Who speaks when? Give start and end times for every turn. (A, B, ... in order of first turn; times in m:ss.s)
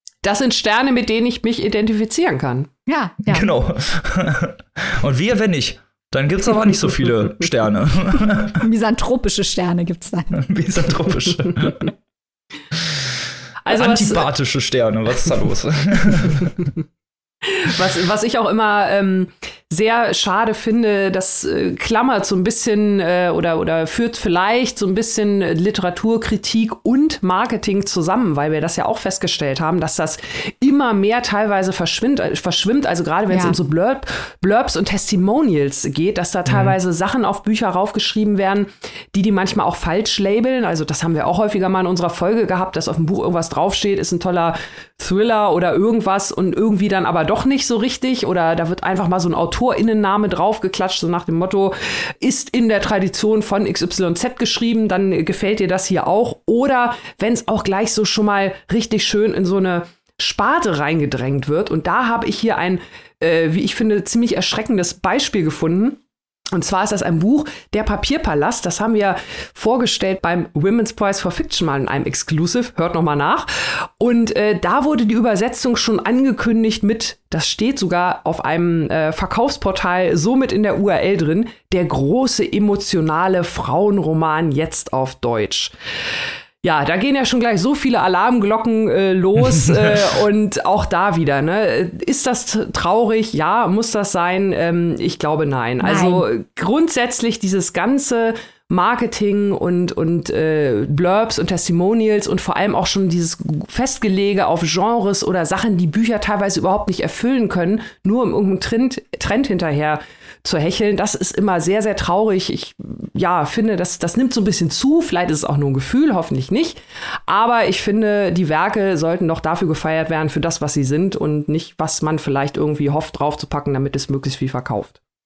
0:00.2-0:02.7 A
0:02.9-0:03.5 B
0:03.3-0:08.6 C
0:08.6-0:10.4 B
0:10.3-0:11.9 C
0:13.6-0:14.3 A
0:13.7-0:16.7 C
0:17.4-1:06.0 A
0:33.3-0:33.5 B
0:36.5-0:36.8 C
1:06.5-1:25.7 A
1:26.6-2:05.0 A
1:35.8-1:36.2 B